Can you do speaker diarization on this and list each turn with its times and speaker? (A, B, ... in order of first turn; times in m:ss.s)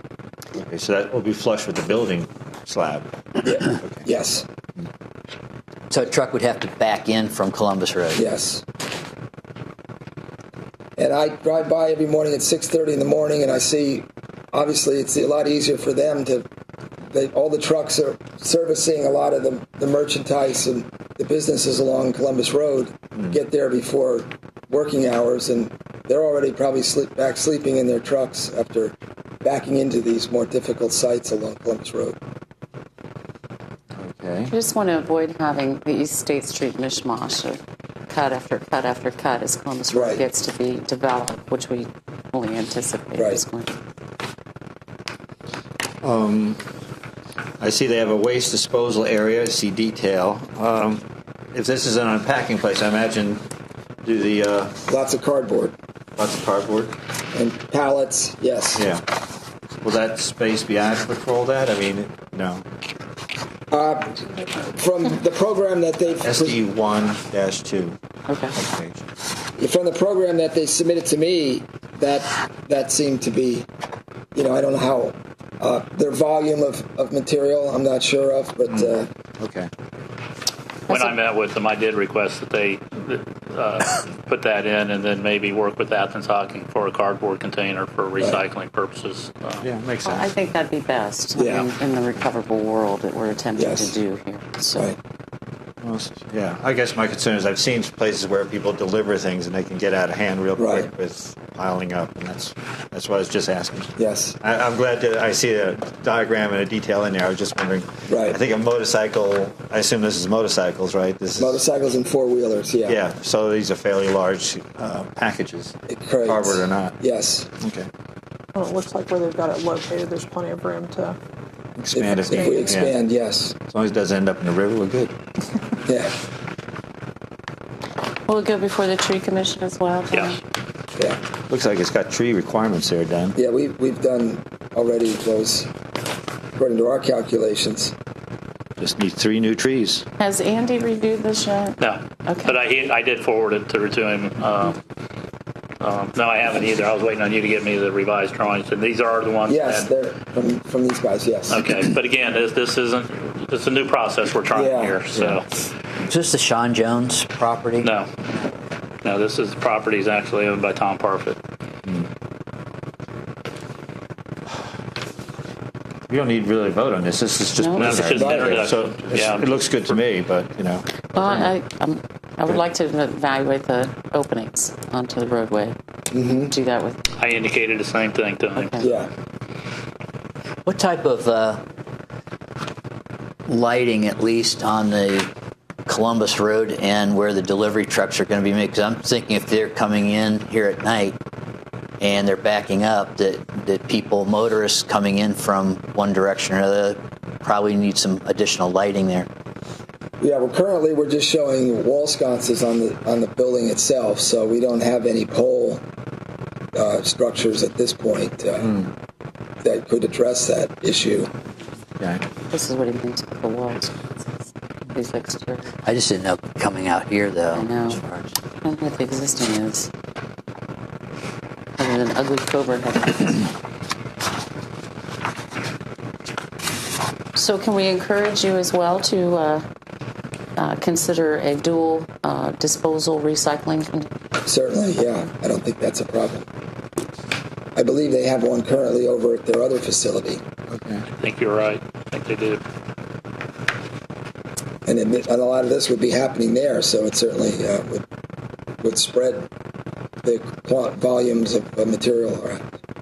0:00.6-0:03.1 A
0:03.4-0:04.5 B
0:03.8-0:04.0 A
0:05.9-0:08.2 C
0:08.1-0:08.6 B
0:11.0-0:16.5 B
0:17.1-0:32.2 B
0:34.0-0:34.5 A
0:34.5-0:43.7 D
0:39.9-0:40.2 B
0:43.2-0:43.4 B
0:46.0-0:46.6 A
0:47.6-0:53.4 A
0:54.0-0:54.8 A
0:54.9-0:55.7 B
0:56.2-0:57.0 A
0:57.3-0:58.8 B
0:58.8-0:59.0 A
0:59.8-1:02.6 A
1:03.7-1:06.6 B
1:06.2-1:08.0 A
1:08.3-1:08.5 D
1:08.5-1:09.0 A
1:09.6-1:13.7 B
1:14.3-1:19.1 B
1:18.7-1:19.7 A
1:20.9-1:29.6 E
1:20.9-1:21.1 D
1:29.6-1:30.3 A
1:30.0-1:34.9 D
1:31.4-1:31.6 B
1:33.6-1:33.9 B
1:35.8-1:51.6 A
1:40.6-1:40.9 B
1:44.0-1:44.4 B
1:48.1-1:48.4 B
1:51.4-1:53.0 B
1:52.8-1:57.0 A
1:55.9-1:57.5 B
1:57.6-1:57.9 A
1:58.6-2:01.1 F
2:01.8-2:03.0 A
2:01.9-2:03.6 B
2:03.7-2:05.1 A
2:05.8-2:06.1 B
2:08.3-2:10.4 D
2:11.5-2:13.4 A
2:13.3-2:15.7 B
2:16.6-2:17.9 B
2:18.8-2:20.0 A
2:20.2-2:22.5 D
2:21.8-2:24.8 E
2:25.8-2:29.9 E
2:29.4-2:31.6 B
2:31.5-2:35.5 E
2:34.5-2:35.0 B
2:35.1-2:35.4 A
2:36.0-2:37.9 C
2:37.8-2:38.1 E
2:39.0-2:41.4 E
2:46.1-2:51.5 A
2:47.6-2:48.0 D
2:47.8-2:49.6 E
2:48.0-2:48.7 B
2:51.1-2:55.8 D
2:56.1-2:56.5 B
2:56.3-2:57.1 D
2:57.2-2:58.8 E
2:58.6-2:58.9 D
2:58.8-2:59.1 B
3:00.6-3:01.6 C
3:03.4-3:05.3 C
3:05.9-3:11.2 C
3:12.0-3:19.3 C
3:20.2-3:25.8 B
3:26.7-3:28.8 B
3:28.6-3:28.9 A
3:29.6-3:31.3 B
3:32.5-3:34.2 D
3:34.9-3:35.7 D
3:35.8-3:38.4 C
3:37.5-3:38.0 D
3:38.6-3:39.9 D
3:41.8-3:43.5 D
3:47.3-3:49.6 D
3:50.6-3:54.1 D
3:54.4-3:56.5 B
3:57.7-4:00.4 B
4:00.7-4:01.1 A
4:01.2-4:02.6 E
4:04.8-4:08.0 B
4:08.8-4:09.5 B
4:10.2-4:12.6 B